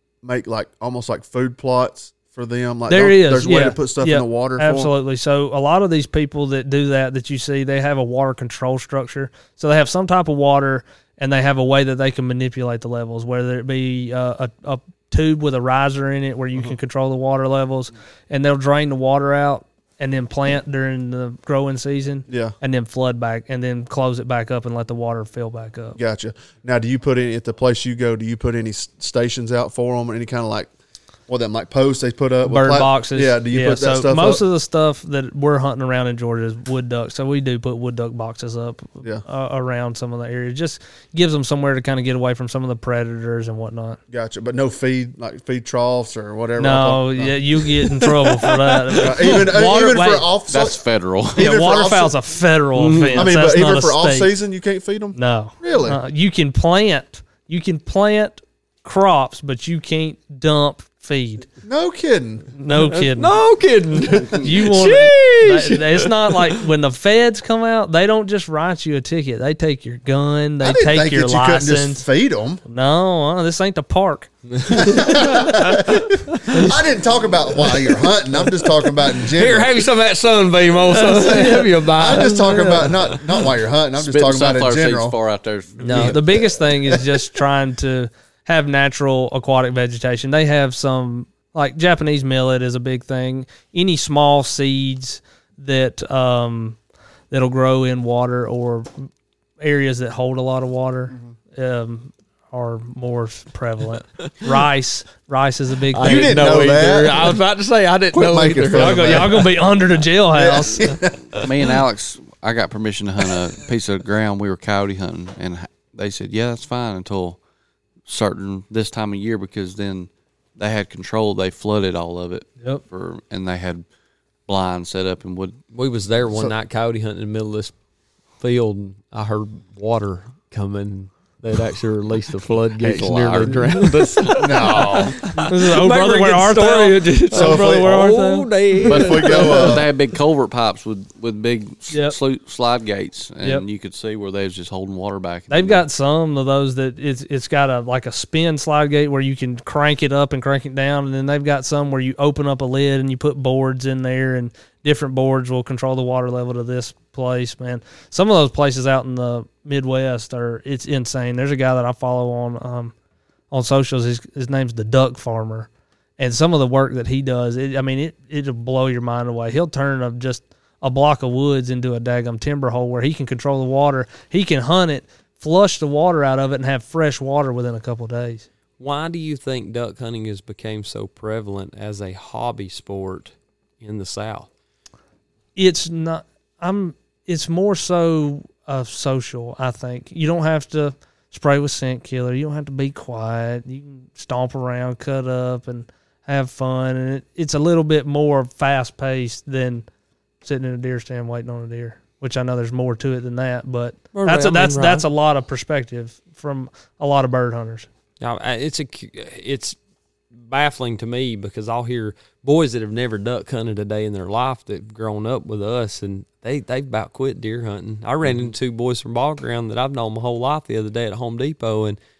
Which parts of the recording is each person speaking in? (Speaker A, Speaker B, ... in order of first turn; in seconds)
Speaker A: 0.2-4.9, 22.3-22.5, 25.9-30.7, 31.3-34.4, 44.1-48.1, 48.9-50.8, 51.3-52.1, 53.1-56.0, 61.6-62.5, 70.6-72.6, 74.7-79.8, 81.9-85.2, 106.0-107.4, 108.1-109.5, 110.3-111.4, 134.4-135.2, 137.3-138.0, 138.8-139.9
Speaker B: 2.9-26.0, 32.4-44.0, 46.6-50.2, 51.4-54.3, 55.1-61.5, 62.5-63.3, 64.2-72.0, 72.7-74.9, 80.9-82.9, 85.8-96.8, 97.3-98.9, 99.6-106.5, 108.7-111.0, 135.3-138.5, 141.9-142.2, 145.5-162.9, 163.5-178.4, 185.6-199.8, 200.4-207.9
Speaker C: 50.5-51.5, 52.8-53.3, 84.0-86.5, 111.3-117.4, 118.0-123.8, 124.5-125.6, 132.8-134.3, 138.8-145.8
Speaker D: 62.7-66.6, 74.5-76.7, 79.2-83.2, 105.9-109.5, 125.7-127.7, 128.4-139.8, 178.8-184.5, 204.1-205.1, 208.2-209.8, 210.4-222.0